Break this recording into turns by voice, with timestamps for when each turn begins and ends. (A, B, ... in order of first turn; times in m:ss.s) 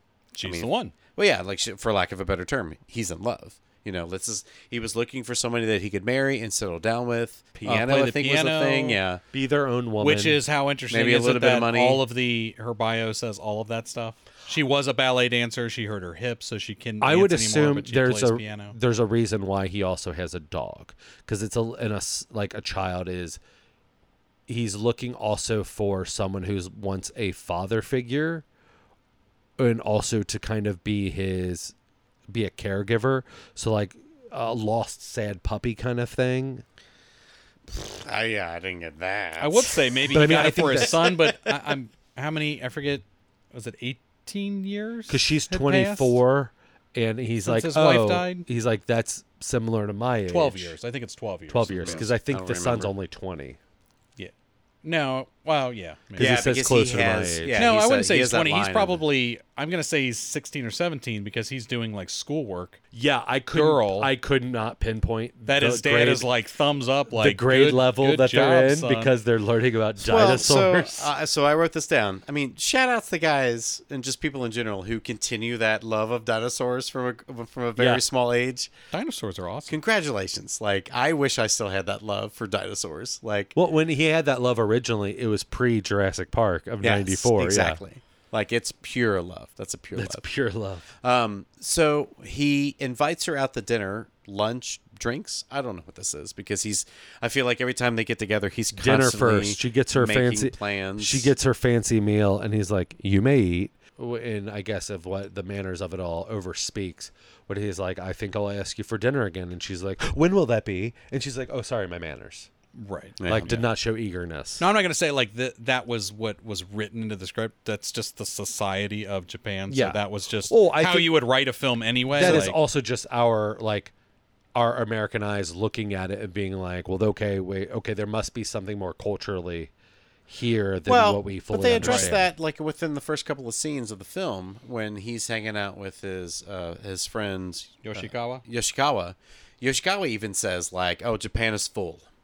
0:00.3-0:00.9 A
0:00.4-0:09.2 B
0:07.6-0:09.0 A
0:09.3-0:10.4 C
0:10.0-0:18.8 A
0:10.9-0:12.0 B
0:17.0-0:23.4 C
0:24.5-0:28.4 C
0:29.6-0:31.8 C
0:32.3-0:36.6 C
0:37.7-0:41.6 B
0:39.4-0:46.2 A
0:40.1-0:41.1 C
0:45.1-0:50.8 C
0:47.4-0:48.4 A
0:50.3-0:52.0 A
0:51.5-0:53.6 C
0:51.8-0:52.9 B
0:54.8-0:56.4 A
0:56.2-0:57.6 C
0:56.2-0:59.0 B
0:57.6-1:02.8 A
1:02.9-1:06.3 C
1:03.5-1:04.1 A
1:05.5-1:09.1 A
1:07.1-1:11.1 C
1:10.0-1:18.7 B
1:17.8-1:18.0 C
1:18.9-1:19.7 A
1:19.7-1:23.6 B
1:23.6-1:27.8 C
1:26.8-1:30.2 B
1:30.0-1:30.8 C
1:31.0-1:41.3 B
1:38.7-1:52.5 C
1:52.8-1:53.6 A
1:53.2-1:53.6 B
1:53.3-1:54.7 C
1:54.6-2:02.6 A
1:59.7-2:01.1 C
2:02.2-2:03.9 C
2:02.2-2:02.5 B
2:04.6-2:09.7 C
2:10.3-2:12.3 C
2:10.9-2:22.1 B
2:11.8-2:12.1 A
2:17.8-2:18.4 A